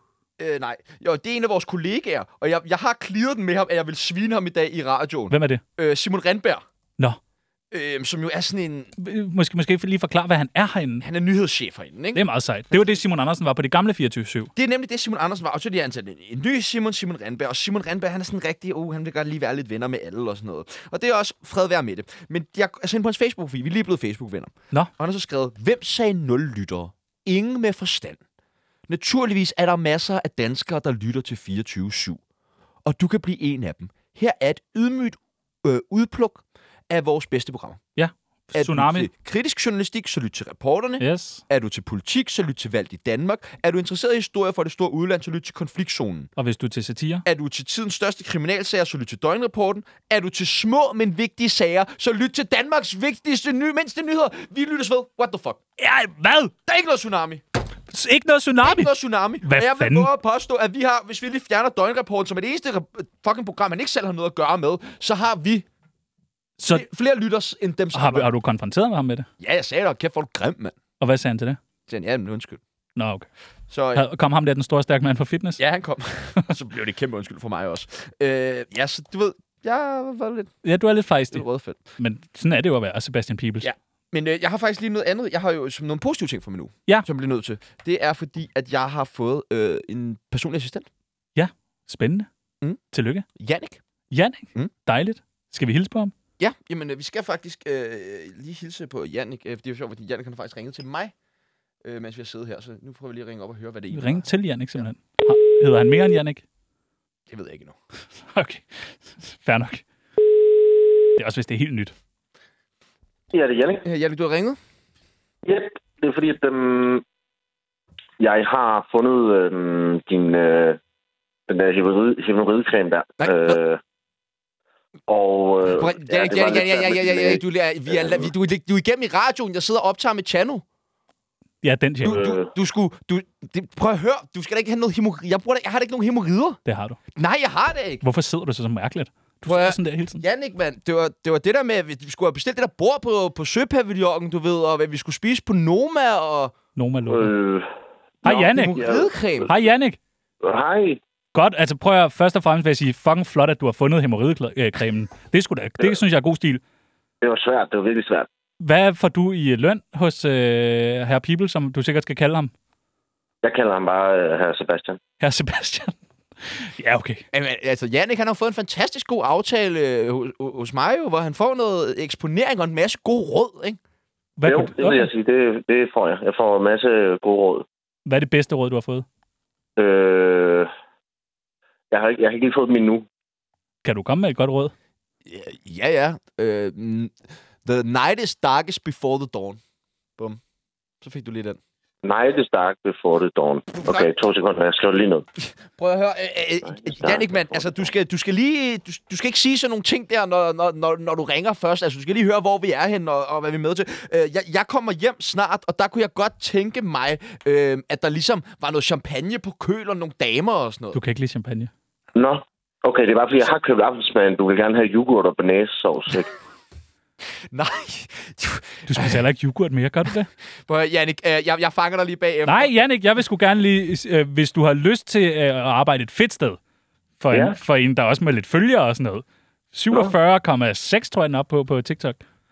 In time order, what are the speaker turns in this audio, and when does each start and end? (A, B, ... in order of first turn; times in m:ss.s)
0:00.4-0:06.6 A
0:05.3-0:05.6 B
0:07.7-0:08.9 A
0:09.0-0:11.0 B
0:11.0-0:12.2 A
0:12.1-0:14.5 B
0:14.6-0:28.2 A
0:28.9-0:32.2 A
0:32.8-0:37.8 A
0:38.0-0:39.1 B
0:38.5-0:46.3 A
0:41.0-0:41.4 B
0:46.4-0:47.2 B
0:47.2-0:55.6 A
0:55.8-0:56.5 B
0:56.6-0:57.4 A
0:57.9-0:58.9 B
0:58.6-1:05.6 A
0:59.4-1:00.1 B
1:06.6-1:06.8 B
1:06.7-1:08.3 A
1:07.9-1:09.3 B
1:09.4-1:10.8 A
1:11.0-1:11.6 B
1:11.9-1:12.6 A
1:13.0-1:13.3 B
1:13.7-1:14.0 A
1:13.9-1:15.6 B
1:15.6-1:20.5 A
1:20.6-1:21.4 B
1:21.3-1:21.8 A
1:22.0-1:23.7 B
1:23.6-1:30.9 A
1:31.3-1:32.3 B
1:32.9-1:33.2 B
1:33.3-1:33.8 A
1:34.1-1:36.1 B
1:36.4-1:41.1 A
1:41.8-1:44.8 A
1:43.9-1:46.4 B
1:47.3-1:47.8 A
1:48.3-1:49.8 B
1:51.1-1:51.9 B
1:53.3-1:53.8 C
1:53.8-1:54.6 A
1:55.4-1:57.0 C
1:58.2-2:00.8 C
2:01.5-2:03.8 C
2:03.2-2:03.6 A
2:05.1-2:08.3 C
2:05.7-2:10.6 A
2:11.6-2:12.2 B
2:12.0-2:16.6 A
2:12.0-2:12.5 C
2:16.6-2:17.0 B
2:17.2-2:18.0 A
2:18.0-2:20.2 B
2:19.4-2:26.5 A
2:26.8-2:27.3 B
2:27.1-2:27.7 C
2:28.2-2:29.5 C
2:28.2-2:28.8 B
2:28.5-2:29.5 A
2:29.5-2:30.0 B
2:30.4-2:31.0 C
2:31.3-2:36.6 B
2:37.2-2:38.3 C
2:38.6-2:42.5 B
2:43.4-2:45.0 C
2:45.2-2:47.2 B
2:47.3-2:53.8 A
2:54.4-2:55.1 B
2:54.4-2:57.6 C
2:58.0-2:59.0 B
2:59.8-3:00.7 C
3:01.9-3:03.0 C
3:03.8-3:04.7 B
3:05.2-3:07.1 A
3:07.6-3:09.6 A
3:11.0-3:11.6 A
3:12.0-3:15.2 C
3:13.7-3:14.1 A
3:15.4-3:31.0 A
3:16.6-3:17.9 C
3:30.9-3:31.7 B
3:32.1-3:36.3 C
3:37.5-3:39.2 A
3:38.9-3:40.3 B
3:40.7-3:42.7 A
3:42.4-3:46.6 B
3:47.2-3:52.2 B
3:47.3-3:47.6 C